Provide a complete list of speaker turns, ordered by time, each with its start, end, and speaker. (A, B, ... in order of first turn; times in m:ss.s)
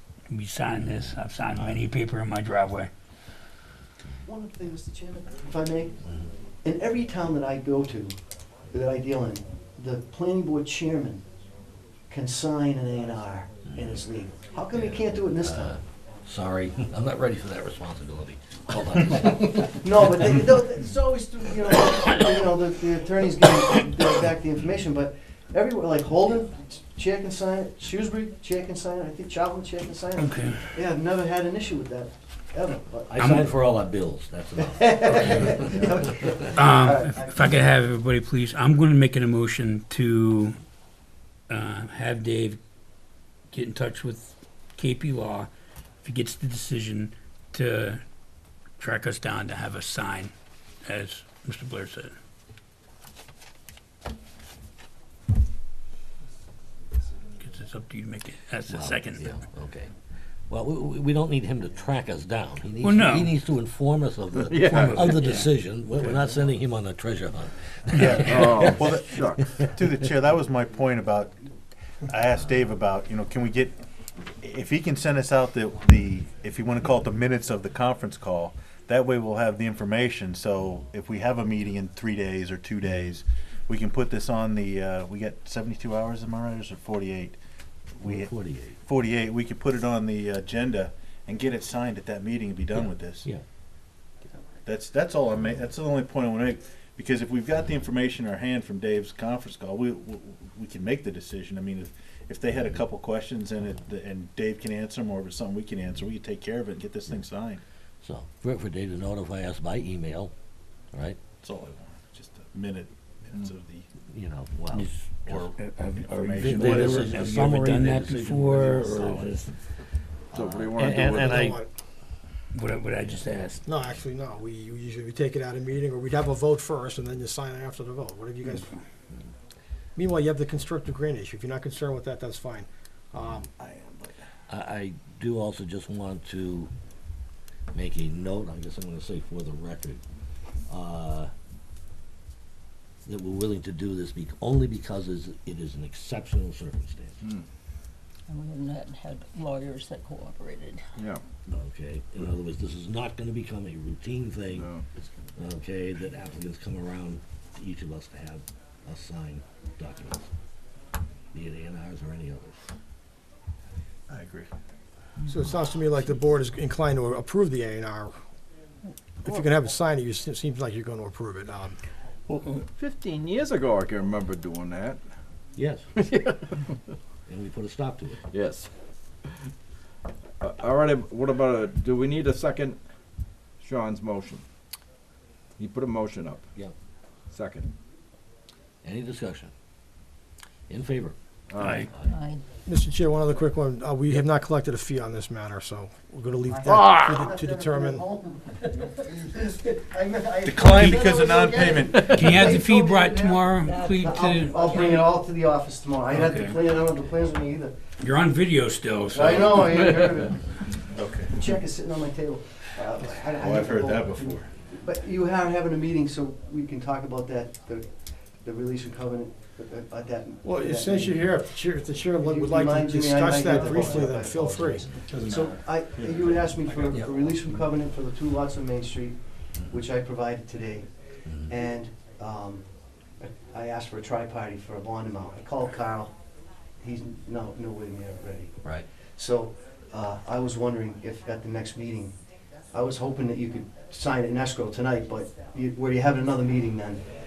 0:00.3-0:02.9 A
0:04.2-0:06.0 B
0:06.6-0:08.1 B
0:08.7-0:11.2 B
0:12.1-0:15.8 B
0:14.7-0:19.7 C
0:19.6-0:33.5 B
0:30.2-0:30.6 A
0:33.1-0:36.1 C
0:34.6-0:37.5 B
0:36.5-0:40.6 A
0:41.5-0:42.6 A
0:43.5-0:45.5 A
0:46.0-0:48.0 A
0:48.8-0:50.3 A
0:50.8-0:52.1 A
0:57.4-0:59.2 A
0:58.7-0:59.9 C
1:00.5-1:08.7 C
1:02.8-1:03.3 A
1:04.5-1:05.2 D
1:04.6-1:05.5 A
1:07.9-1:11.3 E
1:08.1-1:09.5 D
1:12.1-1:13.8 E
1:14.4-1:27.4 E
1:28.0-1:28.3 E
1:28.0-1:28.8 C
1:28.8-1:33.3 E
1:32.8-1:33.4 C
1:34.6-1:47.6 E
1:48.0-1:50.3 C
1:50.9-1:51.2 C
1:51.4-1:53.8 E
1:54.1-1:54.9 C
1:54.7-1:59.5 A
1:55.3-1:57.1 E
1:56.4-1:59.4 C
2:00.3-2:01.6 D
2:00.6-2:01.6 C
2:02.5-2:03.6 A
2:03.6-2:08.7 F
2:10.0-2:13.4 F
2:13.3-2:14.2 E
2:14.5-2:16.7 C
2:17.7-2:20.0 C
2:20.7-2:21.3 C
2:23.0-2:27.2 C
2:28.3-2:30.8 G
2:31.0-2:31.2 D
2:31.5-2:34.7 C
2:34.5-2:34.8 D
2:35.4-2:40.3 C
2:41.3-2:42.6 C
2:44.1-2:44.5 E
2:45.3-2:48.1 F
2:49.2-2:51.7 F
2:52.5-2:55.0 D
2:55.6-2:55.8 C
2:56.0-2:56.6 D
2:57.3-2:58.2 C
2:58.3-2:58.7 D
3:00.4-3:02.8 D
3:03.6-3:04.4 D
3:05.6-3:06.5 D
3:07.3-3:07.7 D
3:08.8-3:09.5 C
3:10.7-3:11.1 C
3:11.5-3:11.9 D
3:11.6-3:11.9 A
3:12.1-3:12.4 G
3:12.7-3:18.0 F
3:16.5-3:27.7 B
3:20.4-3:22.3 E
3:22.0-3:25.0 A
3:23.6-3:25.1 G
3:26.2-3:26.5 A
3:28.0-3:29.8 A
3:29.1-3:30.8 B
3:30.9-3:31.3 E
3:31.3-3:37.8 B
3:33.3-3:34.5 E
3:38.4-3:41.2 B
3:40.4-3:44.8 F
3:42.2-3:50.9 B
3:51.4-3:52.6 B
3:53.2-3:56.1 B
3:56.8-3:58.5 B
3:59.2-4:02.1 B
4:02.7-4:07.0 B